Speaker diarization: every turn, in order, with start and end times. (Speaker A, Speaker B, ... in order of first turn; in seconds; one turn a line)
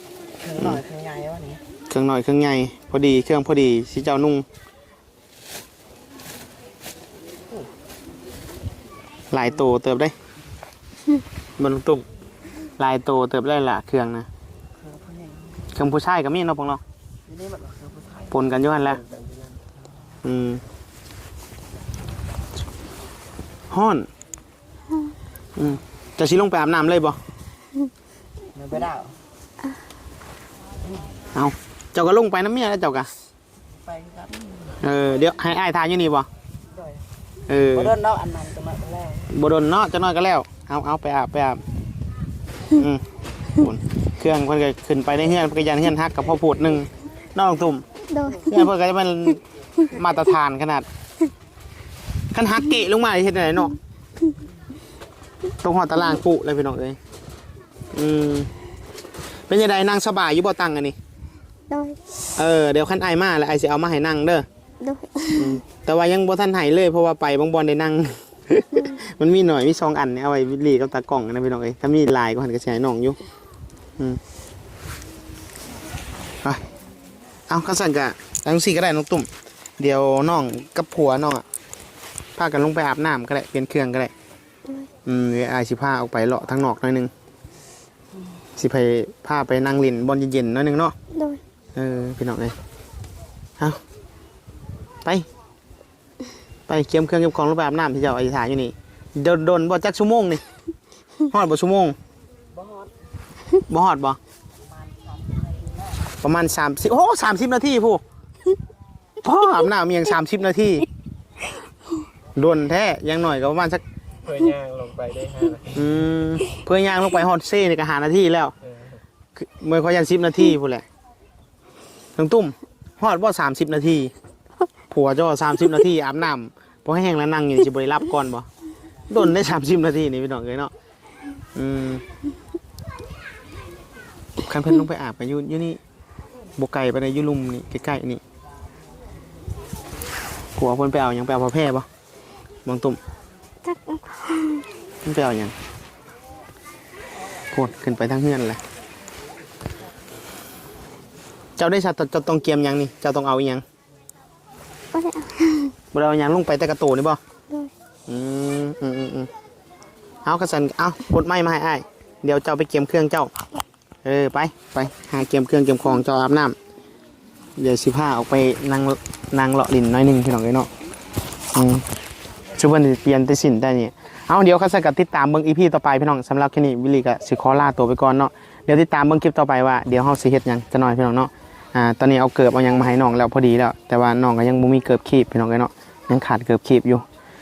Speaker A: 0.4-1.6
Speaker B: 1.9-4.5
Speaker B: 9.3-10.1
Speaker B: 11.6-12.1
Speaker B: 12.8-14.3
Speaker A: 14.8-15.7
Speaker B: 15.7-16.8
Speaker A: 17.3-18.4
Speaker B: 18.3-19.0
Speaker B: 20.2-20.6
Speaker B: 23.7-24.1
Speaker B: 25.6-27.2
Speaker A: 28.5-29.2
Speaker B: 31.3-33.1
Speaker A: 33.7-34.8
Speaker B: 34.8-36.3
Speaker A: 36.7-37.0
Speaker B: 37.5-37.9
Speaker A: 37.7-39.3
Speaker B: 39.3-41.6
Speaker B: 42.7-43.0
Speaker B: 43.5-47.9
Speaker C: 48.1-48.7
Speaker B: 48.5-50.9
Speaker B: 52.3-53.8
Speaker B: 55.6-57.0
Speaker B: 57.9-58.5
Speaker B: 59.5-61.0
Speaker C: 61.7-62.0
Speaker B: 62.4-64.5
Speaker C: 64.8-65.6
Speaker B: 65.3-73.2
Speaker B: 77.5-79.3
Speaker B: 79.8-81.4
Speaker B: 82.4-84.1
Speaker B: 85.0-87.1
Speaker B: 88.6-91.0
Speaker C: 91.1-91.4
Speaker B: 91.8-92.5
Speaker B: 96.7-100.4
Speaker B: 101.3-102.0
Speaker A: 102.5-102.9
Speaker B: 103.7-104.2
Speaker A: 104.8-105.9
Speaker B: 106.2-108.0
Speaker B: 109.2-110.9
Speaker B: 112.4-113.8
Speaker D: 114.2-115.9
Speaker B: 115.8-118.5
Speaker D: 118.7-119.0
Speaker B: 119.4-120.8
Speaker B: 122.2-124.1
Speaker B: 124.9-128.5
Speaker B: 129.1-130.7
Speaker B: 131.6-132.0
Speaker B: 134.4-135.8
Speaker B: 136.6-138.2
Speaker B: 140.6-141.9
Speaker B: 142.7-143.0
Speaker C: 143.6-144.7
Speaker B: 145.0-145.5
Speaker B: 147.5-148.6
Speaker B: 151.6-153.6
Speaker C: 154.9-155.8
Speaker B: 155.9-157.2
Speaker B: 158.1-159.3
Speaker B: 160.2-163.3
Speaker B: 164.1-166.6
Speaker B: 167.6-170.7
Speaker B: 171.5-171.8
Speaker B: 172.6-187.0